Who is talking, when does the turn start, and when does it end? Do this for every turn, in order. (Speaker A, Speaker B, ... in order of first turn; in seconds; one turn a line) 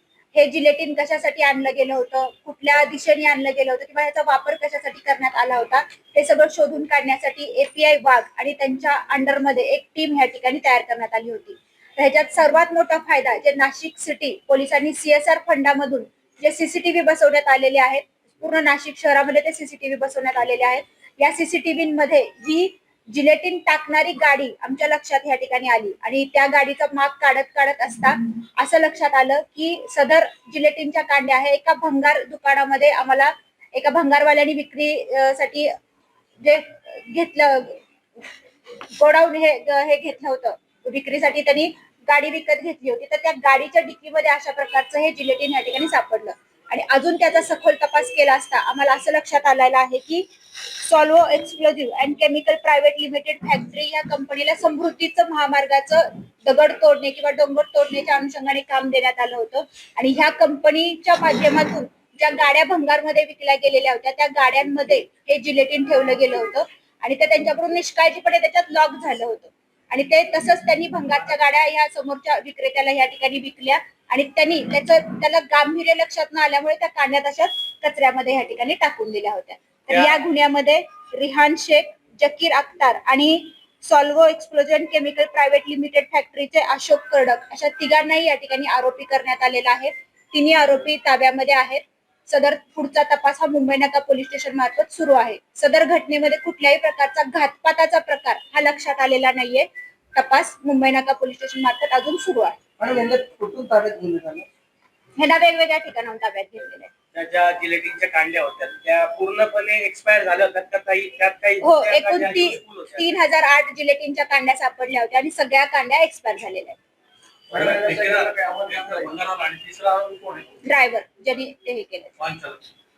Speaker A: 0.3-35.7
Speaker A: 36.4-37.8
Speaker A: 39.0-50.3
Speaker A: 50.8-102.6
Speaker B: 79.9-80.2
Speaker C: 102.8-104.5
Speaker A: 105.2-106.9
Speaker B: 107.1-113.1
Speaker A: 111.6-116.8
Speaker C: 117.5-119.1
Speaker B: 117.5-120.5
Speaker A: 120.6-122.1
Speaker B: 122.2-122.6